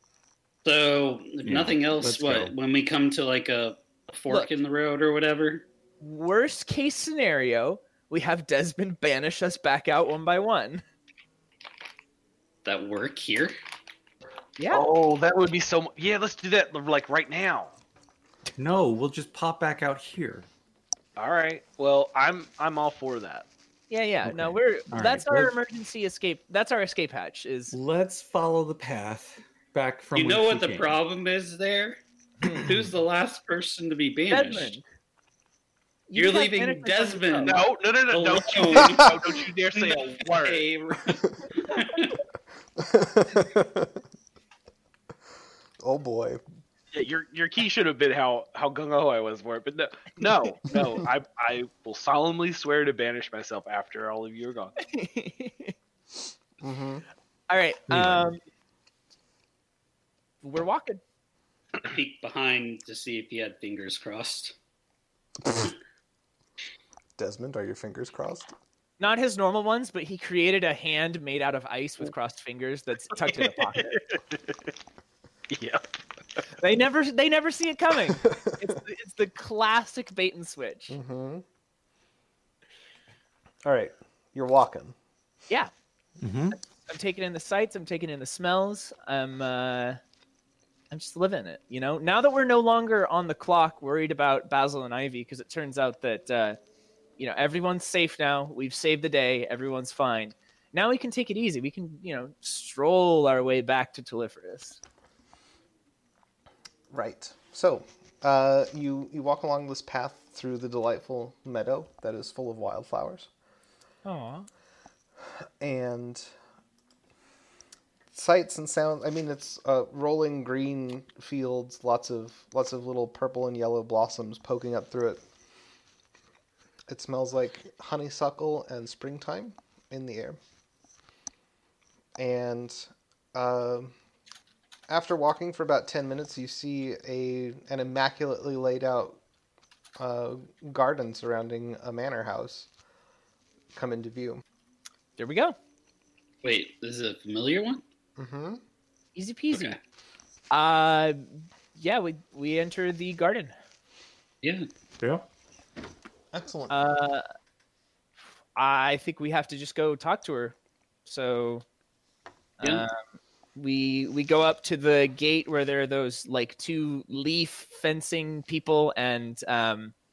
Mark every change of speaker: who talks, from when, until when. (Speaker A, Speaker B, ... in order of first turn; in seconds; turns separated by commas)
Speaker A: 0.6-5.7, Speaker B: 1.4-2.5, Speaker C: 6.0-10.8, Speaker A: 12.6-13.5, Speaker C: 14.6-14.8, Speaker D: 14.7-17.7, Speaker B: 18.6-20.5, Speaker D: 21.2-23.5, Speaker C: 23.9-27.7, Speaker B: 24.2-25.5, Speaker B: 27.7-30.9, Speaker A: 30.1-32.0, Speaker A: 32.5-34.8, Speaker C: 34.3-34.8, Speaker C: 36.1-37.6, Speaker A: 36.1-42.2, Speaker D: 37.5-40.6, Speaker E: 42.8-44.0, Speaker E: 45.8-46.4, Speaker D: 46.9-54.7, Speaker C: 54.8-55.7, Speaker E: 56.6-57.0, Speaker C: 57.5-58.4, Speaker B: 57.9-58.3, Speaker C: 60.4-61.0, Speaker A: 61.8-64.5, Speaker E: 67.2-68.5, Speaker C: 69.0-73.9, Speaker D: 73.3-74.7, Speaker D: 75.5-75.8, Speaker C: 76.6-81.0, Speaker E: 78.3-78.6, Speaker E: 80.9-81.4, Speaker E: 83.6-85.0, Speaker B: 86.2-86.6, Speaker C: 86.8-90.0, Speaker C: 90.9-96.6, Speaker C: 97.2-104.8, Speaker E: 106.9-113.3, Speaker C: 114.0-114.5, Speaker E: 115.6-116.3, Speaker E: 118.1-125.2, Speaker E: 126.9-130.4, Speaker E: 132.2-133.9, Speaker E: 134.9-139.2, Speaker E: 140.0-142.7, Speaker E: 143.7-144.4, Speaker C: 145.2-145.6, Speaker A: 146.4-147.8, Speaker E: 148.2-148.6, Speaker C: 149.2-149.8, Speaker C: 150.5-153.5, Speaker B: 155.0-155.3, Speaker E: 156.3-156.8, Speaker C: 156.7-157.2, Speaker C: 158.6-160.5, Speaker C: 161.1-161.6, Speaker C: 162.6-163.0, Speaker C: 163.6-169.9